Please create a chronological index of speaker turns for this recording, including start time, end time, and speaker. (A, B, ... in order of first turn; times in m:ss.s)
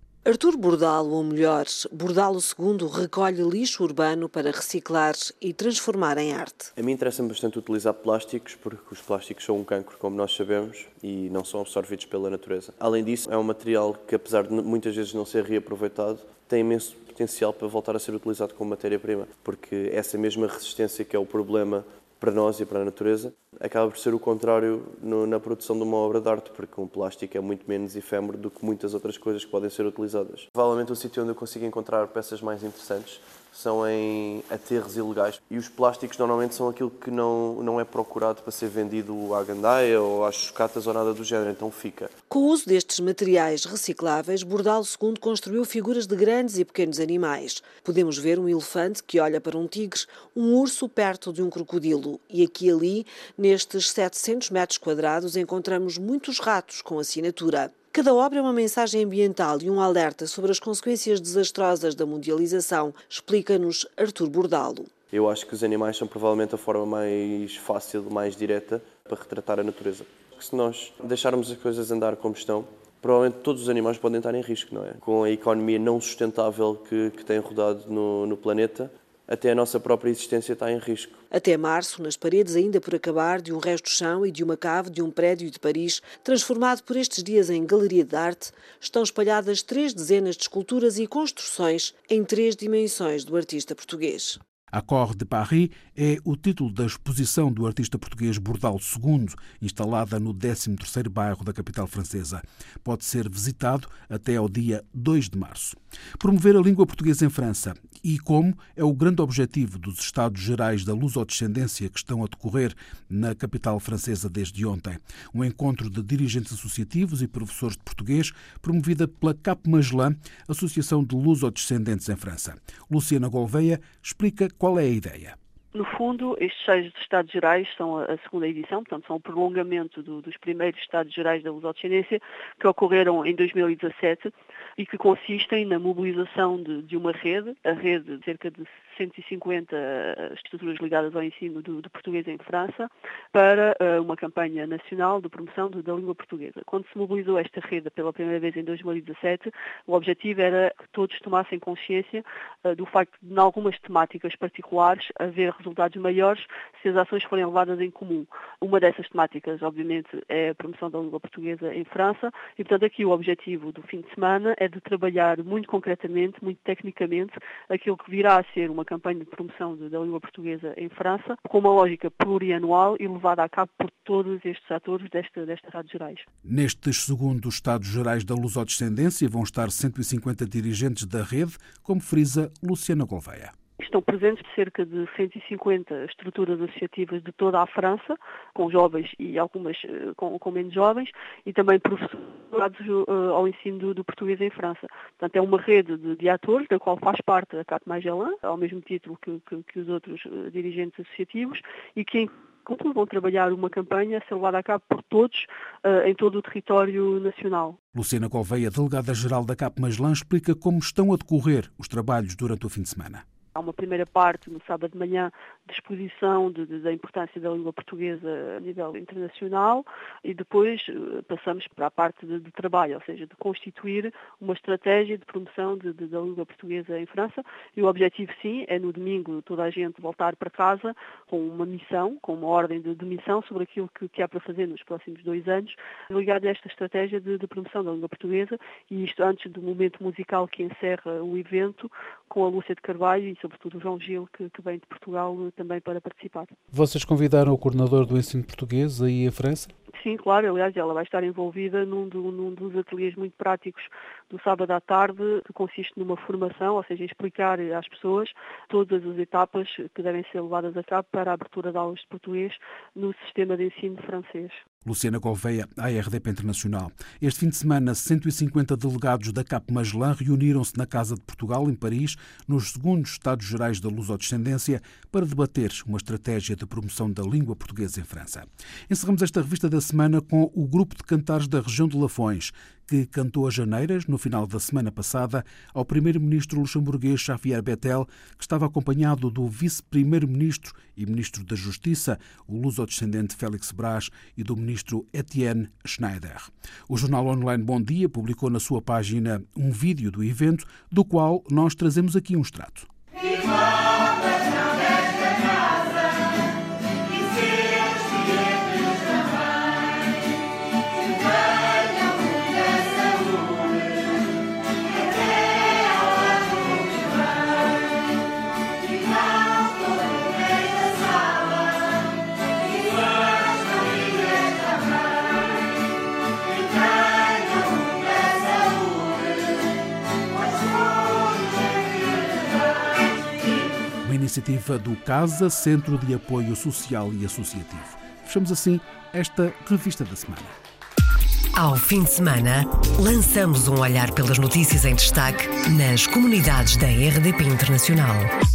0:00.2-0:06.7 A
0:06.8-0:42.1 B
0:42.3-1:04.9 A
1:05.1-1:21.2 B
1:21.3-1:34.4 A
1:34.7-2:05.4 C
2:05.7-2:56.2 D
2:56.4-3:03.5 C
3:03.8-3:27.8 D
3:28.0-3:33.2 C
3:33.6-4:06.5 D
4:06.7-4:09.6 C
4:10.0-4:24.6 D
4:24.8-5:02.9 C
5:34.0-5:40.6 C
5:41.6-5:48.3 E